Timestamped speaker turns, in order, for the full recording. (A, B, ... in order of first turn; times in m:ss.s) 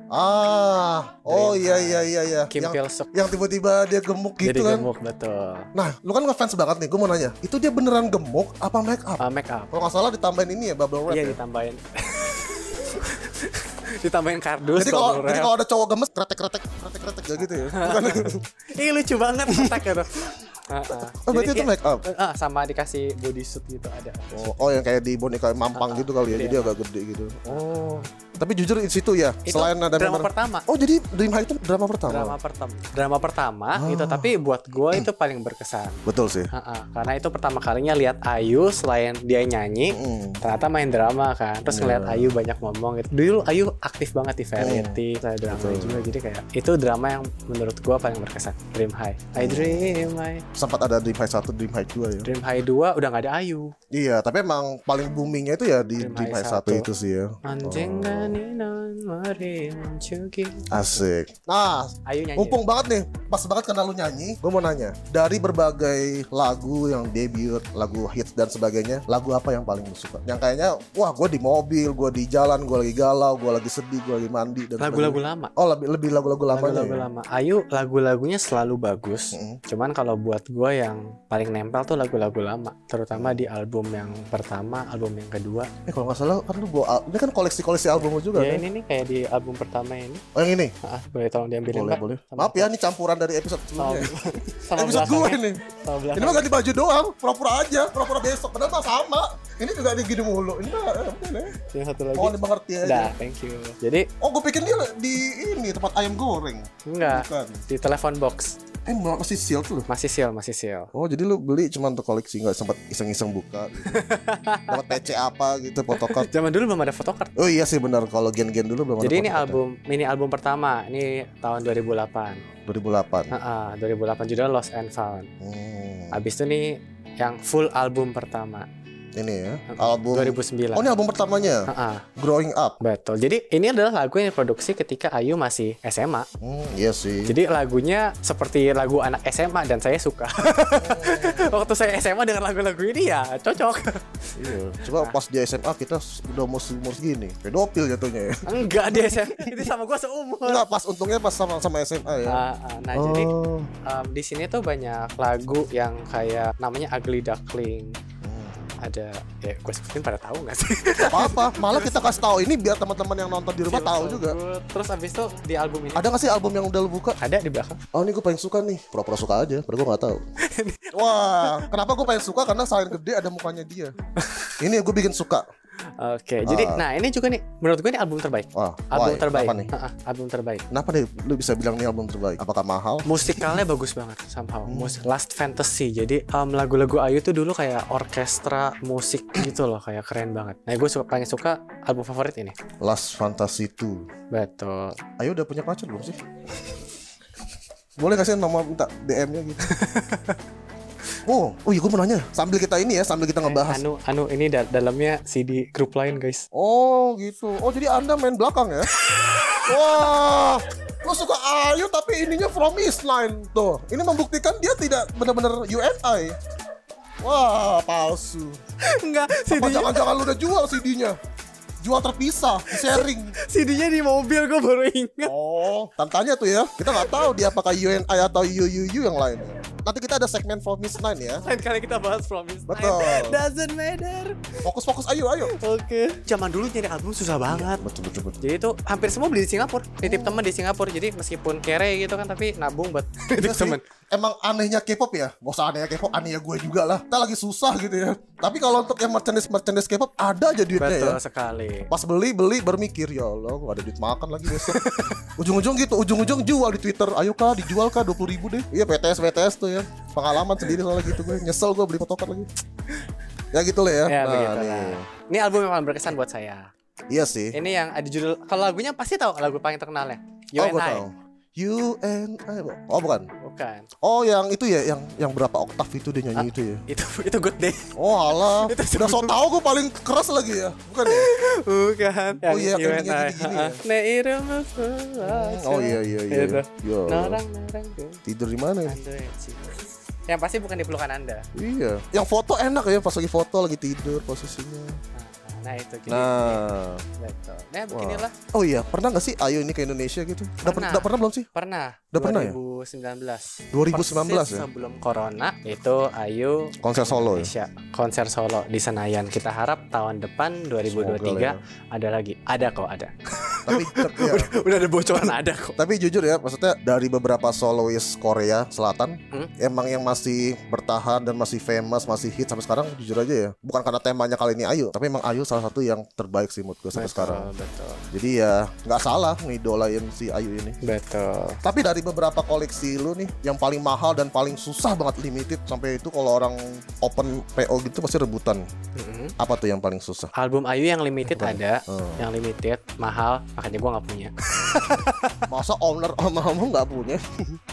0:00.1-0:04.9 A
0:01.3-0:03.1 B
0:04.4-0:05.7 B
0:05.8-0:11.4 A
0:09.2-0:09.8 B
0:11.1-0:15.5 B
0:14.8-0:18.4 A
0:17.4-0:24.7 B
0:19.5-0:20.3 A
0:20.9-0:22.0 A
0:24.3-0:32.4 A
0:25.7-0:26.8 B
0:27.5-0:28.1 B
0:29.4-0:30.6 B
0:32.1-0:36.0 B
0:33.8-0:34.3 A
0:36.1-0:36.5 A
0:36.5-0:50.4 B
0:39.9-0:40.4 A
0:41.7-0:42.4 A
0:44.6-0:46.1 A
0:49.3-0:52.3 A
0:52.2-0:53.7 B
0:53.9-0:58.4 A
0:56.0-0:56.9 B
0:57.4-1:01.0 B
1:00.7-1:17.1 A
1:02.1-1:02.6 B
1:14.8-1:15.5 B
1:16.5-1:25.7 B
1:19.3-1:19.6 A
1:23.1-1:23.5 A
1:25.9-1:28.6 A
1:28.3-1:30.2 B
1:30.3-1:30.7 A
1:30.8-1:32.7 B
1:31.7-1:34.2 A
1:33.8-1:36.5 B
1:34.7-1:35.6 A
1:36.1-1:41.6 A
1:41.6-1:44.1 B
1:42.1-1:43.1 A
1:44.2-1:47.6 A
1:46.8-1:48.6 B
1:48.8-1:49.8 A
1:49.9-1:50.9 B
1:50.9-1:54.1 A
1:53.8-1:55.0 B
1:54.7-1:56.3 A
1:55.9-1:57.4 B
1:57.4-1:59.6 A
1:59.0-2:02.4 B
2:02.6-2:03.3 A
2:03.3-2:05.3 B
2:05.4-2:06.2 A
2:06.1-2:08.7 B
2:09.2-2:11.6 A
2:09.7-2:10.9 B
2:11.7-2:12.0 B
2:12.2-2:12.8 A
2:12.8-2:16.3 B
2:16.4-2:17.3 A
2:17.2-2:25.2 B
2:20.8-2:21.7 A
2:24.4-2:29.7 A
2:28.5-2:30.6 B
2:30.4-2:32.4 A
2:32.3-2:33.3 B
2:32.9-2:33.7 A
2:33.8-2:38.0 B
2:38.2-2:38.8 A
2:38.8-2:42.2 B
2:41.1-2:44.4 A
2:43.6-2:46.1 B
2:45.9-2:47.2 A
2:47.2-2:47.8 B
2:47.9-2:50.2 A
2:50.5-2:51.8 B
2:50.9-2:53.9 A
2:54.2-2:54.6 B
2:54.6-2:55.4 A
2:56.0-3:00.6 B
2:56.4-2:56.8 A
2:58.6-2:59.7 A
3:00.7-3:03.6 A
3:03.0-3:12.6 B
3:04.7-3:05.1 A
3:12.8-3:14.1 A
3:14.3-3:15.0 B
3:15.2-3:16.2 A
3:18.0-3:19.7 A
3:19.7-3:20.4 B
3:21.2-3:23.8 A
3:23.4-3:26.4 B
3:26.5-3:28.9 A
3:29.0-3:29.7 B
3:29.6-3:36.4 A
3:37.2-3:38.6 A
3:38.8-3:40.2 B
3:39.5-3:41.2 A
3:41.8-3:43.4 A
3:42.7-3:45.3 B
3:45.2-3:51.4 A
3:46.9-3:47.4 B
3:51.4-3:54.6 B
3:52.7-3:53.4 A
3:54.6-3:55.5 A
3:55.4-3:57.8 B
3:57.4-3:58.4 A
3:58.4-4:03.8 B
4:00.0-4:00.4 A
4:03.3-4:11.2 A
4:10.8-4:11.9 B
4:11.9-4:22.5 A
4:14.4-4:15.3 B
4:20.6-4:21.3 B
4:23.5-4:25.1 A
4:24.1-4:26.7 B
4:27.1-4:27.6 A
4:27.5-4:31.1 B
4:30.6-4:33.3 A
4:33.4-4:33.9 B
4:34.0-4:36.8 A
4:36.3-4:39.4 B
4:38.0-4:41.3 A
4:41.0-4:48.2 B
4:42.4-4:43.8 A
4:45.2-4:47.4 A
4:48.2-4:49.0 A
4:48.8-4:51.4 B
4:51.6-4:55.0 A
4:55.2-4:56.6 B
4:56.1-4:57.0 A
4:57.2-4:58.3 B
4:57.9-5:01.4 A
5:00.6-5:15.8 B
5:02.1-5:02.6 A
5:03.7-5:04.7 A
5:06.8-5:07.5 A
5:10.8-5:11.6 A
5:13.7-5:14.5 A
5:15.2-5:27.5 A
5:26.9-5:28.0 B
5:28.1-5:30.8 A
5:30.8-5:31.6 B
5:31.6-5:38.6 A
5:39.0-5:39.3 B
5:39.4-5:40.3 A
5:40.4-5:45.4 B
5:41.3-5:42.2 A
5:44.6-5:44.9 A
5:45.5-5:47.6 A